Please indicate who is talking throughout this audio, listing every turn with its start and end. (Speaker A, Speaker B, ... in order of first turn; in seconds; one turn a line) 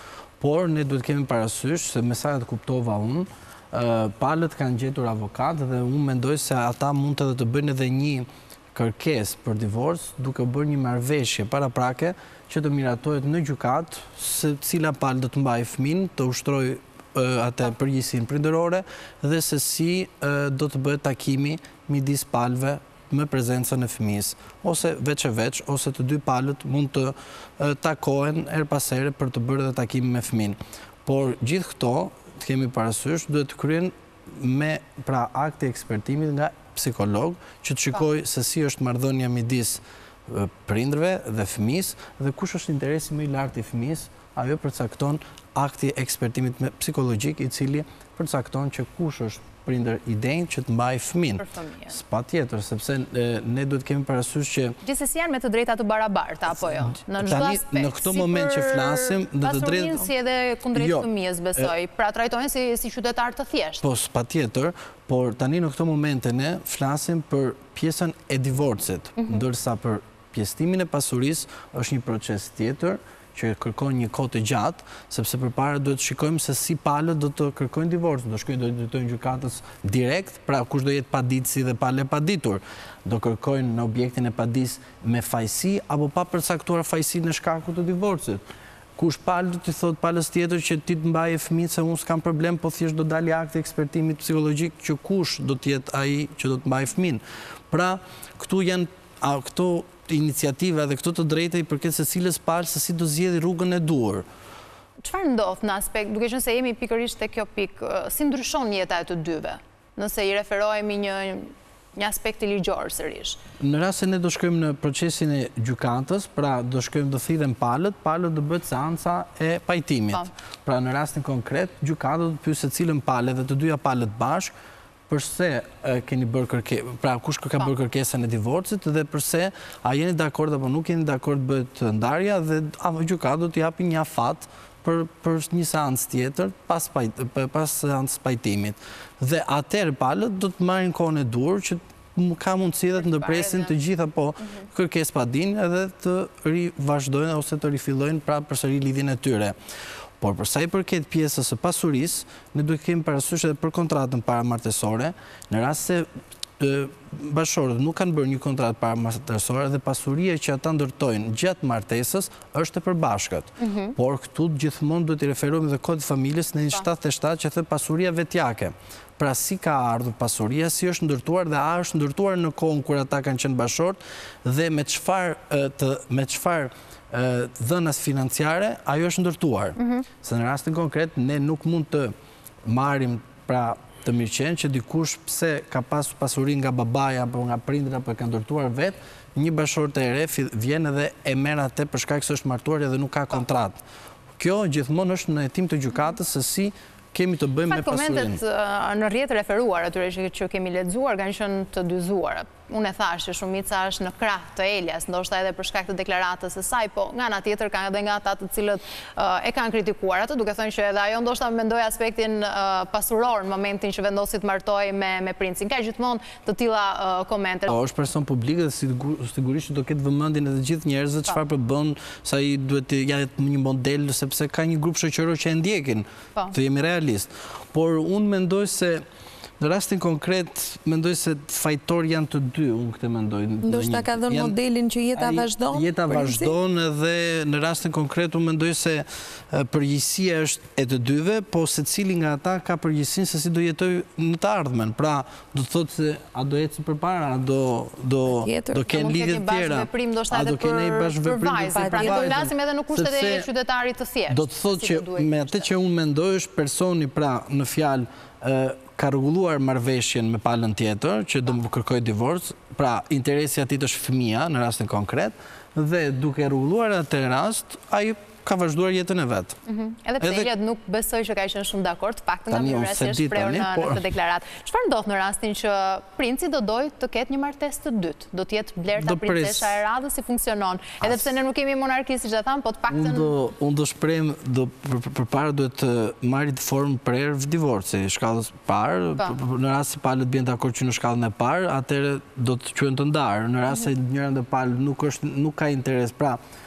Speaker A: 0.4-54.8
Speaker B: 51.4-52.0
Speaker B: 54.8-63.8
Speaker A: 56.9-60.0
Speaker A: 60.7-61.7
Speaker A: 63.8-88.4
Speaker A: 89.0-104.2
Speaker B: 105.0-113.4
Speaker A: 113.6-124.5
Speaker A: 125.1-149.5
Speaker B: 143.0-143.7
Speaker A: 150.2-156.1
Speaker A: 156.6-182.1
Speaker B: 163.6-163.9
Speaker B: 179.8-180.0
Speaker A: 182.6-193.8
Speaker A: 194.4-198.4
Speaker B: 197.7-217.8
Speaker A: 217.7-229.0
Speaker A: 229.6-234.6
Speaker C: 233.6-236.5
Speaker A: 235.1-253.5
Speaker C: 248.3-248.8
Speaker B: 248.9-255.7
Speaker C: 251.6-252.4
Speaker A: 254.3-269.6
Speaker B: 269.6-283.3
Speaker A: 270.2-270.5
Speaker A: 272.5-274.0
Speaker A: 278.9-279.8
Speaker A: 282.9-296.4